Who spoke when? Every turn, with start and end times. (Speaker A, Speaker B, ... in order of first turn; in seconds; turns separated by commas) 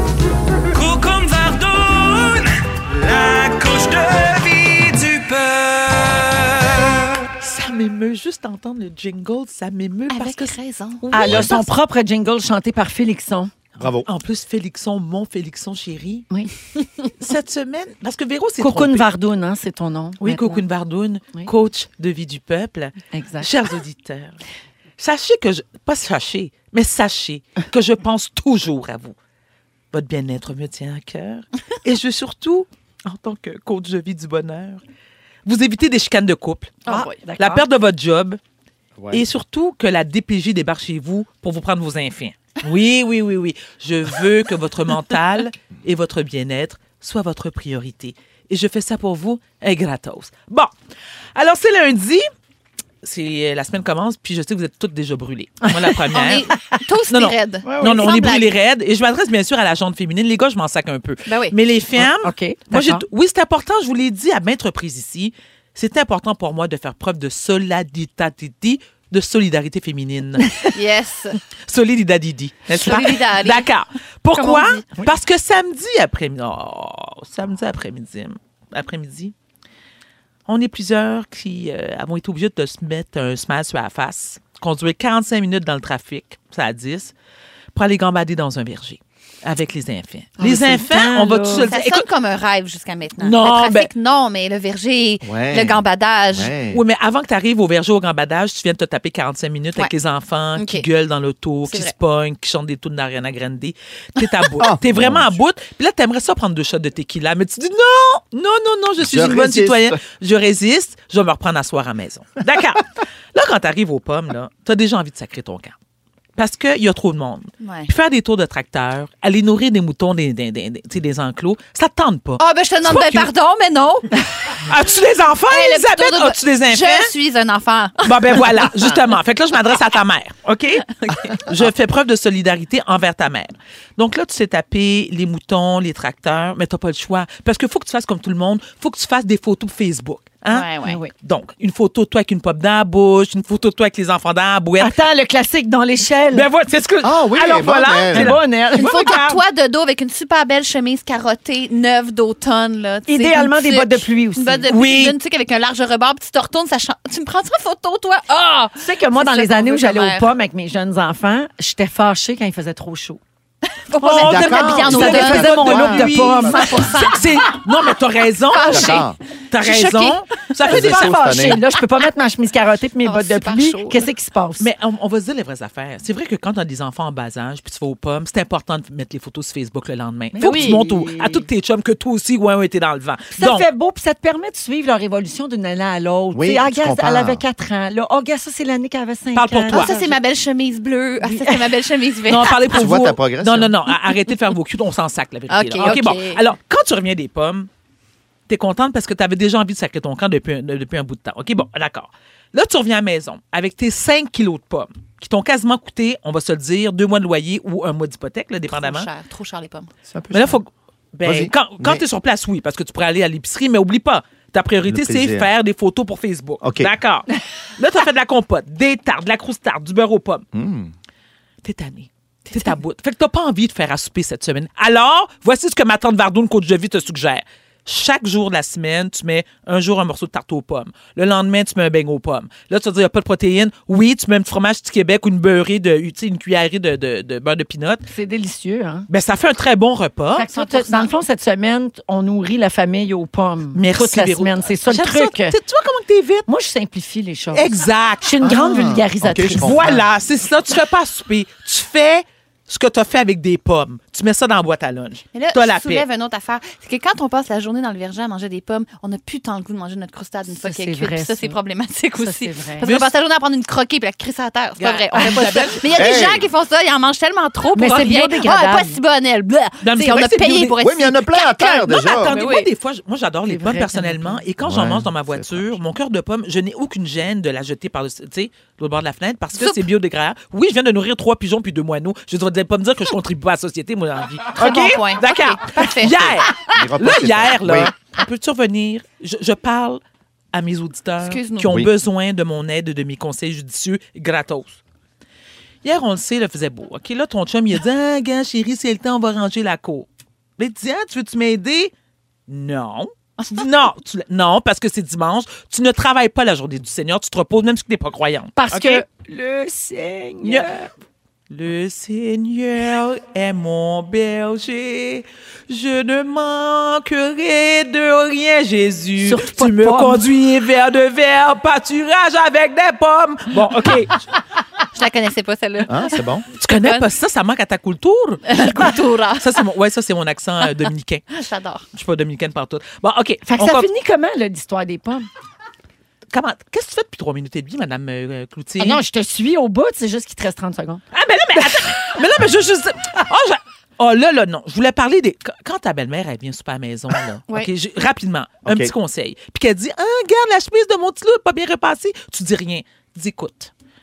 Speaker A: 0.8-2.5, Speaker A: 3.0-6.4, Speaker B: 7.4-11.7, Speaker C: 10.1-11.2, Speaker D: 11.1-13.5, Speaker E: 11.2-11.5, Speaker E: 13.8-14.1, Speaker B: 13.8-16.3, Speaker B: 17.2-19.1, Speaker D: 18.6-20.6, Speaker B: 20.2-24.4, Speaker D: 23.1-23.5, Speaker B: 25.0-29.1, Speaker B: 29.9-34.8, Speaker B: 35.4-38.4, Speaker C: 36.9-37.2, Speaker D: 36.9-37.6, Speaker E: 39.0-39.2, Speaker B: 39.1-50.7, Speaker B: 51.4-52.2, Speaker B: 53.0-56.5, Speaker D: 55.7-55.9, Speaker C: 56.1-58.5, Speaker B: 57.1-70.5, Speaker D: 57.6-58.1, Speaker C: 61.2-61.5, Speaker D: 62.0-63.0, Speaker C: 70.7-71.4, Speaker B: 71.7-79.3, Speaker C: 72.7-73.7, Speaker C: 74.4-74.8, Speaker B: 80.5-87.1, Speaker B: 87.7-92.1, Speaker D: 90.4-91.7, Speaker C: 91.6-96.6, Speaker B: 93.2-93.9, Speaker E: 95.2-96.8, Speaker B: 96.7-112.8, Speaker C: 100.5-100.9, Speaker C: 101.6-101.9, Speaker E: 104.6-105.4, Speaker E: 109.0-110.0, Speaker B: 113.3-115.7, Speaker B: 116.4-123.3, Speaker C: 117.6-117.9, Speaker C: 122.4-124.0, Speaker B: 124.6-127.1, Speaker C: 125.5-128.9, Speaker B: 128.0-130.9, Speaker C: 130.9-131.3, Speaker B: 131.4-140.7, Speaker C: 140.5-141.0, Speaker D: 140.8-141.1, Speaker B: 141.2-144.9, Speaker D: 144.8-146.5, Speaker B: 146.3-149.4, Speaker E: 147.0-148.4, Speaker D: 148.1-149.2, Speaker C: 148.7-160.3, Speaker D: 153.1-154.6, Speaker B: 154.7-155.1, Speaker D: 158.8-163.2, Speaker C: 163.7-165.6, Speaker D: 164.0-167.1, Speaker E: 164.2-166.4, Speaker B: 164.3-171.5, Speaker C: 166.4-167.4, Speaker C: 168.5-170.5, Speaker E: 168.7-169.2, Speaker E: 170.6-171.6, Speaker D: 170.7-174.7, Speaker C: 173.0-174.1, Speaker B: 174.6-183.7, Speaker D: 180.3-181.5, Speaker C: 180.4-180.7, Speaker D: 183.3-190.1, Speaker E: 186.3-187.4, Speaker B: 189.3-190.0, Speaker C: 189.7-192.7, Speaker D: 191.2-191.7, Speaker B: 192.3-197.7, Speaker E: 192.7-193.7, Speaker C: 195.5-196.4, Speaker B: 198.5-209.1, Speaker C: 208.7-209.9, Speaker E: 210.1-210.6, Speaker B: 210.3-220.4, Speaker E: 211.2-212.0, Speaker E: 214.8-215.5, Speaker E: 216.6-216.9, Speaker E: 220.5-220.9, Speaker B: 221.6-238.1, Speaker D: 238.1-239.1, Speaker B: 239.1-240.5, Speaker D: 240.3-245.6, Speaker C: 240.6-241.1, Speaker B: 243.7-246.4, Speaker D: 246.4-249.9, Speaker B: 247.5-248.4, Speaker E: 248.4-250.0, Speaker B: 249.5-256.0, Speaker C: 255.3-272.7, Speaker D: 260.5-261.6, Speaker D: 262.2-262.9, Speaker B: 262.8-263.1, Speaker B: 264.8-266.0, Speaker E: 265.9-266.5, Speaker D: 267.7-269.0, Speaker B: 269.8-270.8, Speaker E: 270.8-272.3, Speaker B: 271.9-290.0, Speaker D: 273.5-274.4, Speaker E: 274.6-275.8, Speaker C: 279.5-279.8, Speaker C: 284.6-286.6, Speaker E: 286.7-287.9, Speaker B: 290.5-294.8, Speaker C: 291.2-291.7, Speaker B: 295.8-300.1, Speaker B: 300.6-301.9, Speaker B: 302.5-309.0, Speaker D: 308.6-310.9, Speaker B: 310.4-310.7, Speaker B: 311.5-324.2, Speaker D: 319.2-320.2, Speaker C: 324.9-327.1, Speaker E: 325.9-326.4, Speaker B: 326.6-331.2, Speaker C: 328.4-329.6, Speaker C: 331.3-331.8, Speaker B: 331.9-333.9, Speaker D: 333.5-335.3, Speaker B: 336.3-339.0, Speaker D: 338.8-341.0, Speaker B: 341.1-353.7, Speaker E: 348.6-348.9